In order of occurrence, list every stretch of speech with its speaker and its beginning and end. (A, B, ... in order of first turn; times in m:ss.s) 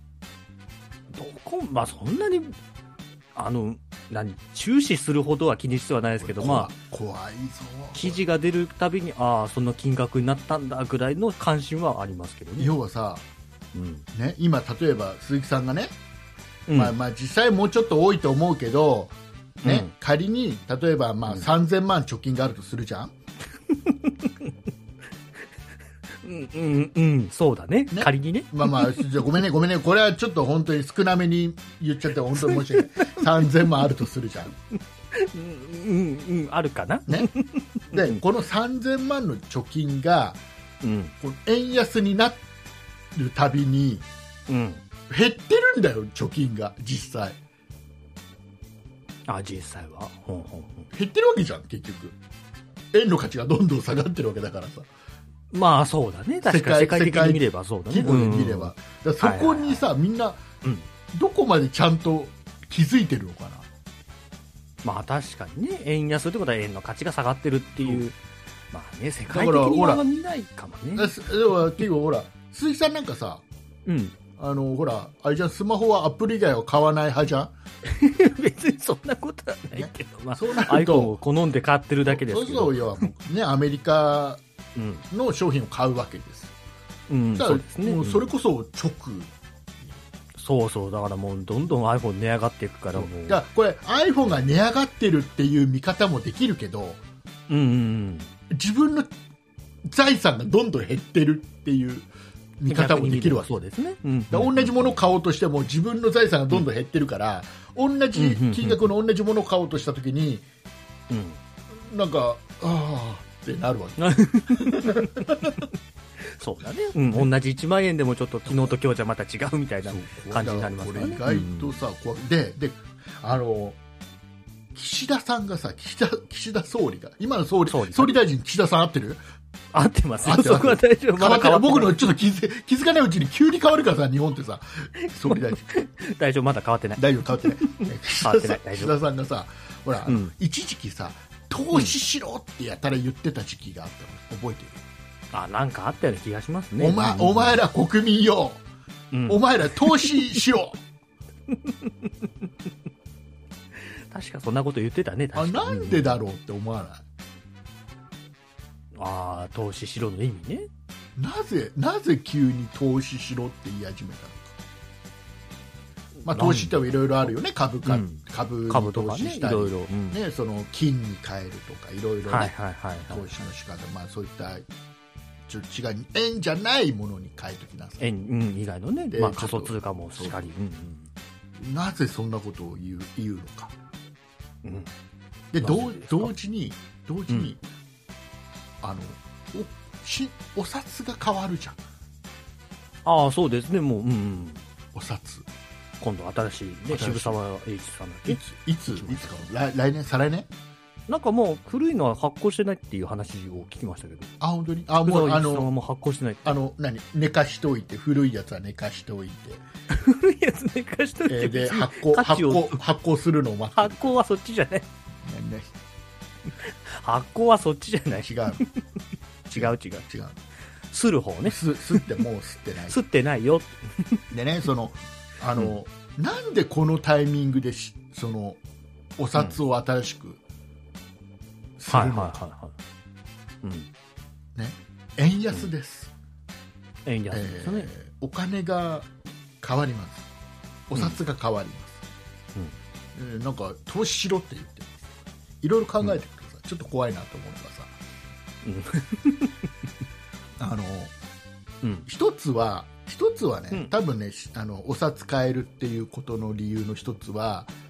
0:01.1-0:02.6 A
0:03.4-0:06.7 A
0:06.2-0:08.2 B
0:07.9-0:12.7 A
0:12.6-0:13.2 B
0:13.7-0:14.0 A
0:14.1-0:16.0 B
0:16.7-0:17.0 A
0:16.7-0:23.1 B
0:19.6-0:19.9 A
0:23.7-0:24.3 A
0:26.2-0:29.0 A
0:27.9-0:34.5 B
0:32.4-0:33.9 A
0:35.1-0:38.2 A
0:37.9-0:40.4 B
0:40.8-0:41.1 A
0:41.2-0:42.4 B
0:43.2-0:44.1 B
0:44.5-0:44.8 A
0:45.1-0:47.4 B
0:49.3-0:50.9 A
0:50.9-0:52.2 B
0:52.9-0:54.9 B
0:55.5-0:59.9 A
0:56.4-1:00.4 B
1:01.1-1:03.7 B
1:04.8-1:08.2 A
1:08.7-1:11.3 A
1:09.3-1:10.0 B
1:11.0-1:13.4 B
1:13.9-1:14.2 A
1:14.4-1:17.5 B
1:17.8-1:23.1 A
1:19.8-1:21.2 B
1:22.0-1:24.4 B
1:24.8-1:25.0 A
1:25.1-1:26.5 B
1:27.1-1:28.2 A
1:27.4-1:30.0 B
1:30.4-1:33.4 A
1:33.0-1:37.0 B
1:37.5-1:38.3 A
1:38.5-1:39.1 B
1:39.8-1:43.6 B
1:42.7-1:44.9 A
1:44.3-1:50.4 B
1:48.2-1:48.8 A
1:51.1-1:51.4 A
1:51.7-1:55.6 B
1:54.0-1:55.3 A
1:56.3-2:01.8 A
1:58.5-1:58.7 B
1:59.8-2:03.8 B
2:04.8-2:09.2 B
2:07.7-2:08.2 A
2:09.7-2:12.0 A
2:10.2-2:15.6 B
2:15.1-2:18.9 A
2:17.0-2:24.8 B
2:20.1-2:20.3 A
2:25.3-2:27.6 A
2:26.8-2:28.6 B
2:29.1-2:30.2 A
2:29.3-2:30.8 B
2:34.1-2:36.2 A
2:35.4-2:37.0 B
2:39.0-2:40.7 A
2:41.2-2:44.6 B
2:46.2-2:46.8 A
2:46.2-2:52.5 B
2:47.8-2:50.2 A
2:52.3-2:53.4 A
2:53.1-2:54.7 B
2:55.5-2:58.0 B
2:58.0-3:01.1 A
2:59.1-3:00.5 B
3:01.6-3:03.7 B
3:04.6-3:04.9 A
3:05.5-3:07.6 B
3:05.6-3:06.3 A
3:08.8-3:11.8 B
3:13.0-3:14.6 A
3:14.9-3:15.5 B
3:16.0-3:19.5 A
3:16.9-3:17.4 B
3:18.3-3:20.5 B
3:21.1-3:24.3 A
3:24.4-3:25.7 B
3:25.0-3:26.6 A
3:26.4-3:29.6 B
3:29.9-3:32.8 A
3:31.3-3:34.1 B
3:33.8-3:34.9 A
3:35.2-3:35.7 B
3:36.9-3:38.7 A
3:38.2-3:38.6 B
3:39.5-3:40.1 A
3:39.5-3:40.4 B
3:40.9-3:42.0 A
3:41.4-3:43.0 B
3:42.9-3:44.2 A
3:44.3-3:48.6 B
3:49.2-3:50.4 B
3:51.8-3:52.4 B
3:51.9-3:52.8 A
3:53.6-3:53.9 A
3:54.6-3:56.1 B
3:57.1-3:57.9 A
3:57.3-3:59.1 B
3:59.6-4:00.3 B
4:00.9-4:02.0 B
4:03.2-4:05.1 B
4:05.6-4:08.0 B
4:08.6-4:09.6 A
4:10.6-4:11.1 B
4:12.1-4:17.7 B